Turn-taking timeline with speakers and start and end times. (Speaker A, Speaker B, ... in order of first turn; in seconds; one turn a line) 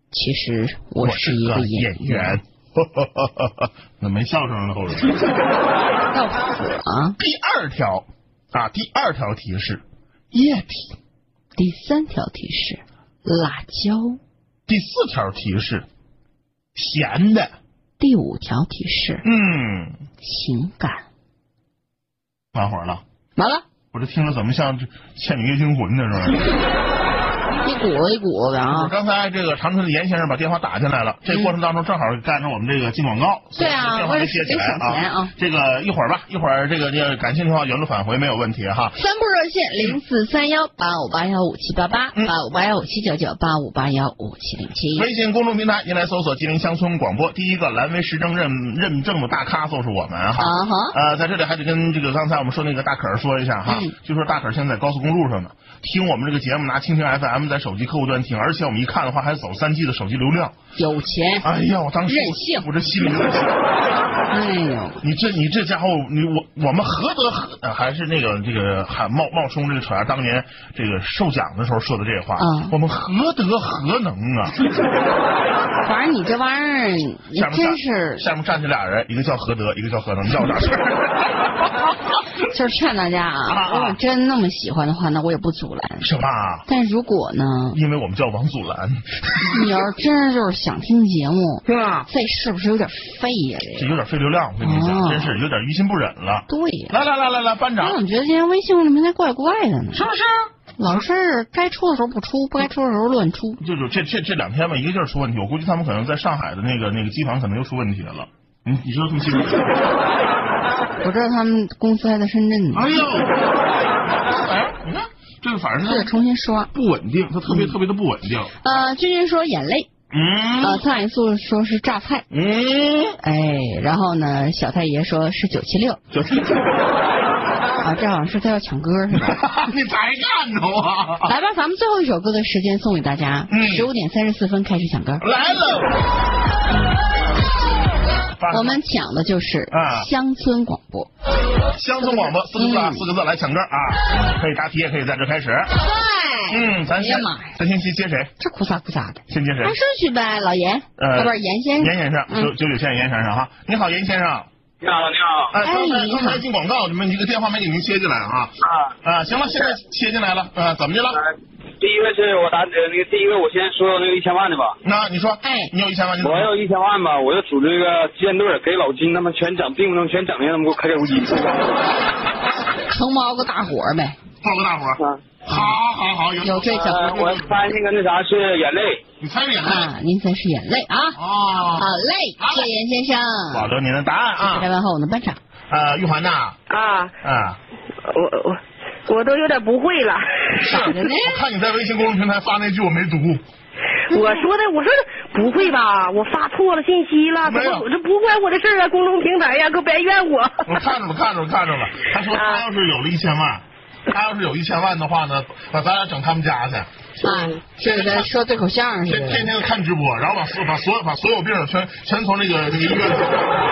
Speaker A: 0.1-2.4
Speaker B: 1.0-5.2
Speaker A: 6.1-7.2
Speaker B: 7.2-11.0
Speaker A: 11.6-14.2
Speaker B: 14.7-15.9
Speaker B: 16.8-17.6
Speaker A: 18.0-19.2
Speaker B: 19.2-20.0
Speaker A: 20.2-21.0
Speaker B: 22.5-23.0
Speaker A: 23.4-23.6
Speaker B: 23.9-26.5
Speaker A: 27.6-28.9
Speaker B: 28.7-39.0
Speaker A: 33.6-35.3
Speaker A: 39.0-45.1
Speaker B: 45.0-60.6
Speaker A: 50.4-51.0
Speaker A: 53.7-54.0
Speaker A: 60.8-61.5
Speaker B: 61.4-63.6
Speaker A: 62.1-62.7
Speaker A: 64.3-65.0
Speaker B: 65.0-74.6
Speaker A: 72.4-72.8
Speaker A: 75.8-78.3
Speaker B: 77.3-81.7
Speaker A: 82.5-86.1
Speaker B: 83.5-84.0
Speaker B: 86.0-86.7
Speaker A: 86.7-87.8
Speaker B: 87.7-89.7
Speaker A: 89.5-93.9
Speaker B: 91.7-92.1
Speaker B: 93.8-98.0
Speaker A: 94.6-95.3
Speaker A: 96.5-97.0
Speaker A: 97.8-100.1
Speaker B: 99.9-100.5
Speaker A: 100.8-103.6
Speaker B: 103.6-109.7
Speaker A: 111.0-113.0
Speaker B: 112.7-113.4
Speaker B: 114.2-116.1
Speaker A: 115.8-116.7
Speaker B: 116.7-118.5
Speaker A: 117.5-117.8
Speaker A: 118.6-119.9
Speaker B: 120.1-120.8
Speaker A: 120.6-122.3
Speaker B: 122.3-123.2
Speaker A: 123.2-126.0
Speaker B: 126.1-126.6
Speaker A: 127.8-129.7
Speaker B: 129.1-131.3
Speaker A: 131.2-135.2
Speaker B: 133.5-133.9
Speaker B: 135.2-136.0
Speaker B: 138.4-138.8
Speaker A: 138.5-141.1
Speaker B: 139.7-140.1
Speaker B: 141.7-145.8
Speaker A: 142.0-143.1
Speaker A: 145.7-147.6
Speaker B: 146.5-148.3
Speaker A: 148.4-152.5
Speaker B: 149.3-149.8
Speaker B: 151.0-154.5
Speaker C: 154.8-155.5
Speaker B: 155.5-161.2
Speaker A: 155.6-156.4
Speaker C: 161.8-164.8
Speaker B: 164.8-166.5
Speaker A: 165.4-165.7
Speaker C: 166.2-171.6
Speaker A: 172.9-174.2
Speaker B: 174.4-177.5
Speaker A: 176.4-177.2
Speaker C: 176.9-179.0
Speaker B: 179.2-179.9
Speaker A: 179.6-181.2
Speaker B: 181.2-182.7
Speaker A: 181.8-183.7
Speaker B: 183.5-184.7
Speaker A: 184.4-185.4
Speaker B: 185.7-186.6
Speaker D: 186.7-187.1
Speaker B: 187.2-187.6
Speaker D: 188.1-190.4
Speaker B: 190.6-193.4
Speaker A: 190.6-191.4
Speaker D: 194.1-200.7
Speaker B: 197.4-197.9
Speaker B: 200.7-206.9
Speaker D: 202.3-202.7
Speaker A: 207.2-209.5
Speaker B: 207.8-208.3
Speaker B: 209.1-213.3